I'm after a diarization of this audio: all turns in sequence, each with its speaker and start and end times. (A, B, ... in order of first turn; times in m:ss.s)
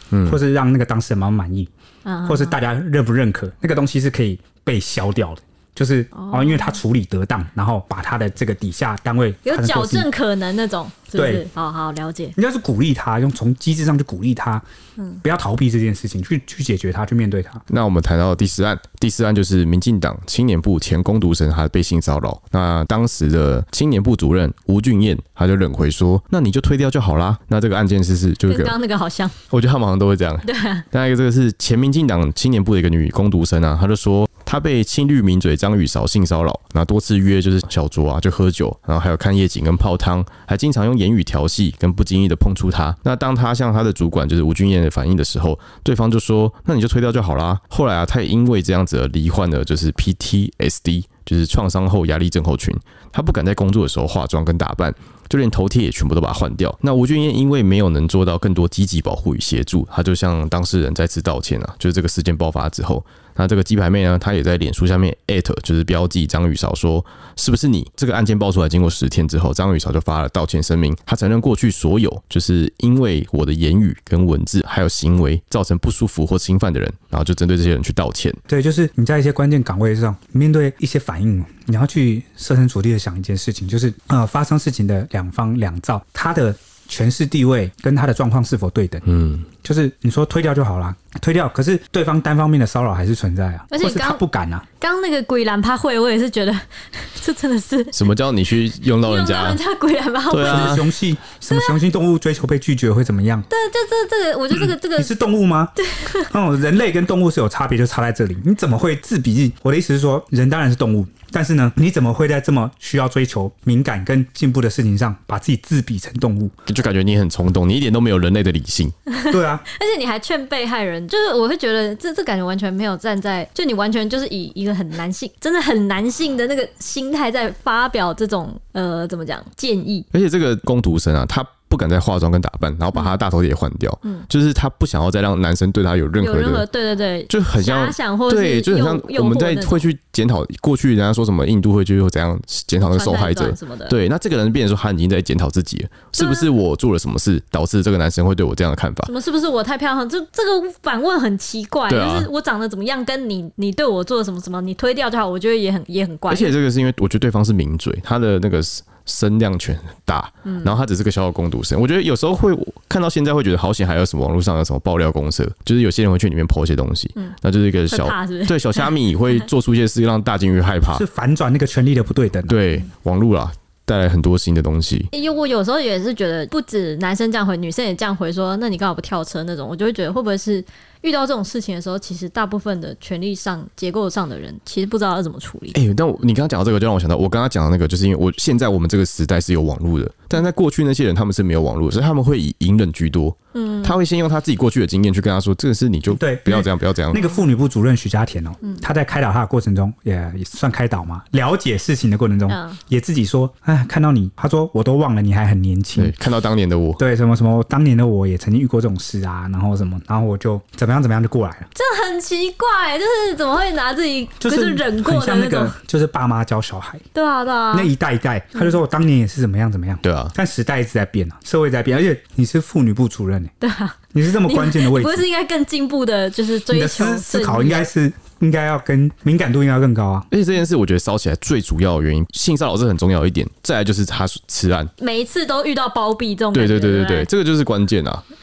0:00.1-0:00.4 A
0:00.2-0:01.7 B
0:02.0-0:02.6 C
0:02.2-0:10.1 B
0:06.1-0:06.8 C
0:09.4-0:12.4 C
0:11.2-0:11.4 B
0:12.4-0:14.6 B
0:15.2-0:17.6 B
0:17.7-0:28.8 A
0:28.5-0:29.4 C
0:29.5-1:18.4 A
0:30.4-0:30.8 C
1:18.5-1:29.0 B
1:29.1-1:29.5 A
1:29.6-1:34.6 B
1:33.7-1:34.2 C
1:34.8-1:38.0 C
1:37.9-1:39.6 A
1:39.0-1:40.8 C
1:40.3-1:40.9 A
1:40.4-1:43.5 B
1:41.5-1:41.8 C
1:43.5-1:45.1 C
1:44.6-1:45.7 B
1:45.8-1:46.3 C
1:46.3-1:56.5 B
1:56.7-1:59.0 A
1:59.1-2:10.1 C
1:59.3-1:59.6 B
2:10.1-2:16.7 A
2:16.2-2:19.9 C
2:17.3-2:29.1 A
2:22.8-2:24.0 C
2:26.2-2:26.5 C
2:29.1-2:36.5 C
2:31.9-2:32.3 A
2:36.3-2:51.0 A
2:40.5-2:40.8 C
2:47.9-2:48.9 C
2:50.9-2:52.6 B
2:52.5-2:55.1 A
2:55.1-3:05.8 C
3:05.7-3:17.2 A
3:13.5-3:14.0 C
3:16.1-3:26.1 B
3:17.1-3:17.4 C
3:22.5-3:22.8 C
3:26.0-3:27.0 A
3:27.0-3:31.7 B
3:31.8-3:35.8 C
3:34.4-3:37.0 B
3:37.1-3:37.9 C
3:37.7-3:43.5 B
3:40.0-3:40.3 A
3:43.6-3:47.9 C
3:44.1-3:45.3 B
3:46.7-3:50.3 B
3:50.3-3:54.9 A
3:55.0-3:57.3 C
3:56.5-3:58.2 A